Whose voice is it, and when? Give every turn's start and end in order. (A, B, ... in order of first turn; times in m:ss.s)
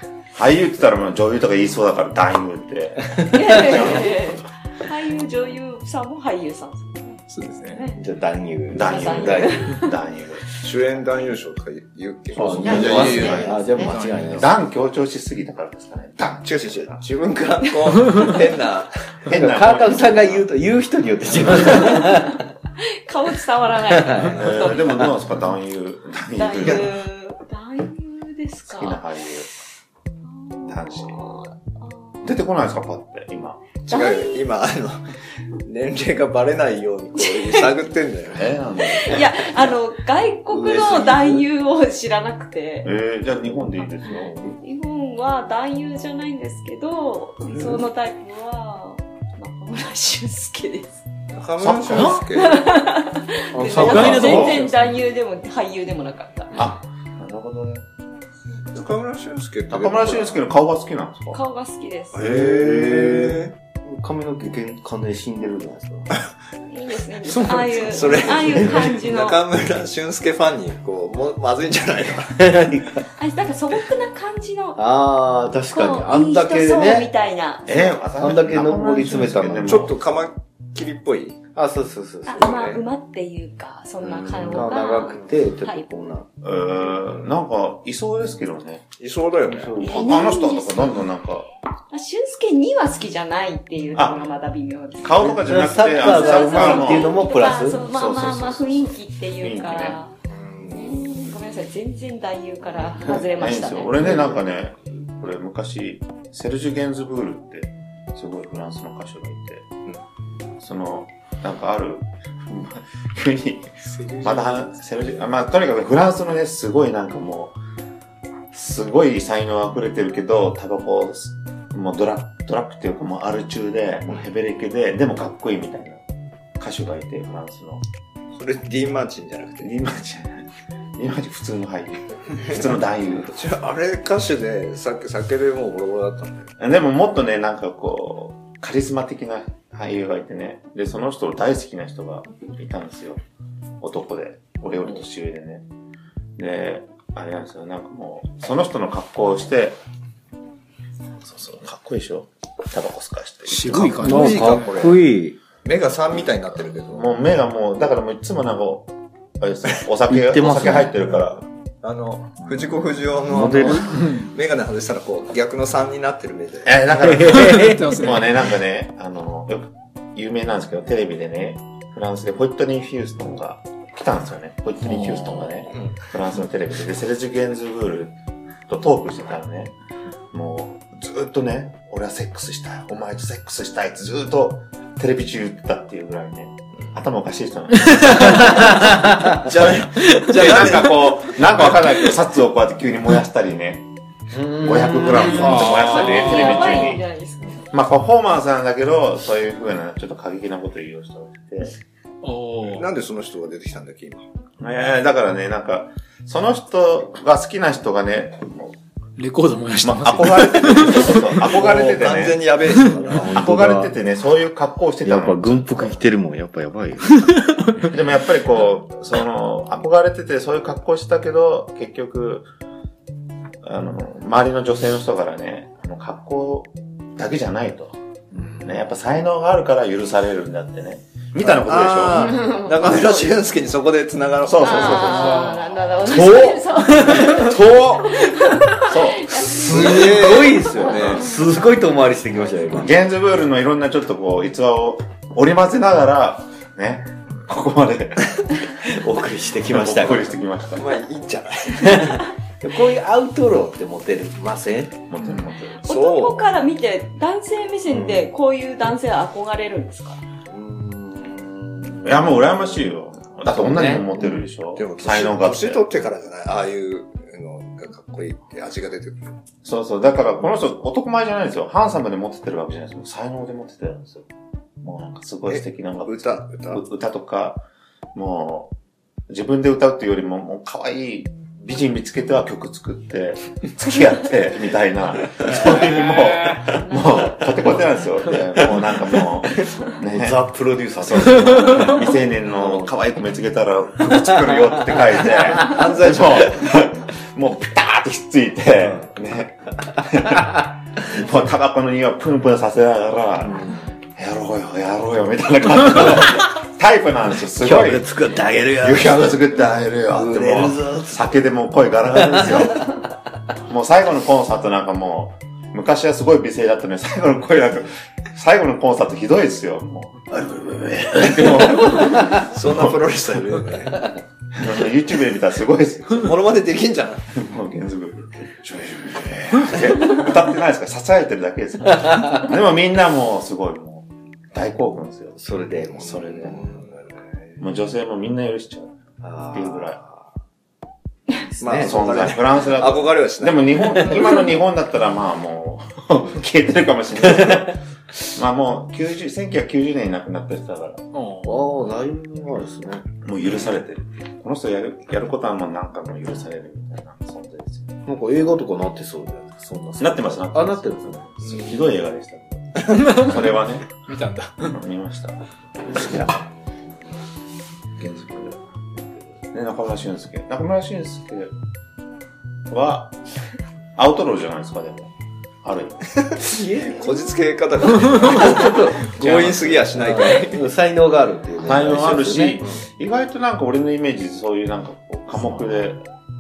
0:00.4-0:04.3 A
0:03.3-0:08.0 B
0:07.3-0:08.0 C
0:08.0-0:09.6 D
0:08.7-0:10.6 A
0:08.8-0:09.8 B
0:10.6-0:13.7 E
0:12.3-0:14.5 D
0:12.3-0:13.6 A
0:12.6-0:14.1 B
0:13.7-0:14.5 C
0:14.3-0:17.0 A
0:16.4-0:18.9 E
0:19.3-0:20.5 A
0:19.3-0:22.4 D
0:21.4-0:21.8 A
0:21.5-0:25.1 B
0:23.9-0:24.4 D
0:24.2-0:24.7 E
0:24.3-0:27.0 A
0:26.4-0:29.0 B
0:28.7-0:29.5 A
0:30.2-0:32.4 B
0:30.7-0:31.2 A
0:32.2-0:33.6 A
0:33.9-0:35.0 E
0:33.9-0:34.5 B
0:35.6-0:39.5 E
0:37.3-0:37.6 B
0:38.3-0:39.7 A
0:38.8-0:42.9 B
0:40.5-0:41.4 D
0:42.8-0:44.3 A
0:44.1-0:51.0 B
0:51.3-0:52.7 E
0:51.6-0:52.2 A
0:52.0-0:56.6 B
0:53.5-0:54.9 D
0:53.7-0:54.6 A
0:56.5-0:57.8 A
0:58.7-1:00.4 E
0:59.7-1:01.4 A
1:01.3-1:02.2 B
1:02.1-1:03.5 E
1:02.2-1:06.2 D
1:06.7-1:09.4 B
1:07.2-1:08.8 C
1:07.9-1:12.5 E
1:12.4-1:13.0 D
1:13.1-1:14.8 B
1:14.8-1:17.1 D
1:15.7-1:18.0 B
1:17.7-1:19.9 A
1:18.2-1:19.9 D
1:19.5-1:21.4 E
1:21.5-1:22.5 D
1:22.3-1:25.9 B
1:22.4-1:22.8 E
1:24.0-1:26.3 D
1:25.0-1:25.3 E
1:26.4-1:28.9 A
1:27.0-1:27.3 E
1:29.0-1:29.7 E
1:29.4-1:30.2 D
1:29.8-1:31.0 B
1:29.8-1:31.5 A
1:31.9-1:40.1 B
1:34.0-1:34.3 A
1:35.0-1:40.0 A
1:35.2-1:37.8 D
1:40.3-1:41.1 E
1:40.7-1:44.2 B
1:43.3-1:49.7 A
1:50.6-1:53.7 A
1:53.8-1:54.8 C
1:54.2-1:57.6 A
1:58.5-2:06.0 A
2:06.6-2:07.8 A
2:08.3-2:09.7 E
2:09.6-2:13.3 A
2:13.3-2:16.5 E
2:16.6-2:23.2 A
2:23.8-2:25.6 A
2:26.4-2:29.8 A
2:31.4-2:34.2 A
2:33.5-2:34.8 C
2:33.8-2:35.4 D
2:34.0-2:35.0 E
2:35.6-2:37.2 E
2:36.9-2:41.4 A
2:40.1-2:41.2 D
2:41.4-2:46.8 E
2:43.3-2:43.8 D
2:43.8-2:44.3 C
2:46.6-2:58.2 A
2:47.0-2:47.9 D
2:47.2-2:48.4 C
2:55.7-2:55.9 E
2:58.7-2:59.8 A
3:00.3-3:08.8 A
3:08.0-3:09.3 D
3:08.8-3:11.4 E
3:10.3-3:13.9 A
3:14.3-3:15.6 D
3:14.5-3:17.0 A
3:15.4-3:17.0 C
3:15.7-3:17.6 B
3:17.7-3:21.7 A
3:22.2-3:22.9 C
3:22.7-3:24.2 E
3:24.6-3:28.8 A
3:29.2-3:31.4 C
3:29.8-3:32.5 A
3:30.5-3:33.3 E
3:33.2-3:34.0 D
3:33.3-3:36.0 A
3:35.0-3:37.9 D
3:37.9-3:42.5 A
3:43.6-3:48.0 A
3:48.6-3:53.2 A
3:51.4-3:55.3 E
3:52.2-3:53.0 B
3:54.4-3:58.2 A
3:54.6-4:01.5 B
3:55.1-3:56.0 C
3:58.9-4:00.1 A
3:59.4-4:02.9 D
3:59.7-4:01.3 E
4:00.9-4:01.2 A
4:02.8-4:08.6 A
4:08.8-4:10.4 D
4:09.7-4:11.0 A
4:10.7-4:12.3 E
4:11.9-4:15.0 D
4:15.1-4:15.9 A
4:15.8-4:20.2 B
4:15.9-4:16.5 E
4:17.9-4:18.3 D
4:20.5-4:22.8 D
4:22.0-4:25.8 A
4:23.5-4:24.2 D
4:24.2-4:29.2 E
4:29.6-4:34.3 A
4:34.8-4:37.6 A
4:35.5-4:36.8 E
4:38.2-4:38.7 A
4:39.3-5:08.1 A
4:45.7-4:46.8 C
4:49.4-4:52.9 D
4:55.5-4:56.0 D
4:55.7-4:56.5 E
4:58.8-4:59.1 D
5:03.4-5:03.9 D
5:07.6-5:09.5 D
5:08.8-5:12.9 A
5:10.1-5:11.4 D
5:12.3-5:12.8 D
5:13.7-5:20.3 A
5:20.4-5:22.4 D
5:21.1-5:23.0 A
5:22.5-5:24.1 E
5:24.5-5:26.5 A
5:26.2-5:27.2 E
5:27.3-5:36.8 A
5:35.4-5:37.0 D
5:36.5-5:37.1 E
5:37.6-5:38.9 A
5:39.2-5:40.3 D
5:39.5-5:40.0 A
5:41.4-5:42.3 D
5:41.6-5:44.4 E
5:41.7-5:51.1 A
5:51.1-5:51.8 C
5:51.4-5:53.1 D
5:53.2-5:58.0 A
5:58.0-6:01.3 D
6:00.0-6:04.0 A
6:01.4-6:01.8 E
6:02.9-6:03.4 C
6:04.1-6:04.8 C
6:04.7-6:06.4 A
6:08.0-6:08.6 A
6:09.5-6:11.6 A
6:12.7-6:13.2 A
6:14.0-6:15.1 A
6:15.6-6:16.2 A
6:16.2-6:20.7 E
6:16.5-6:17.3 D
6:18.4-6:22.6 D
6:19.2-6:19.8 A
6:21.6-6:26.1 A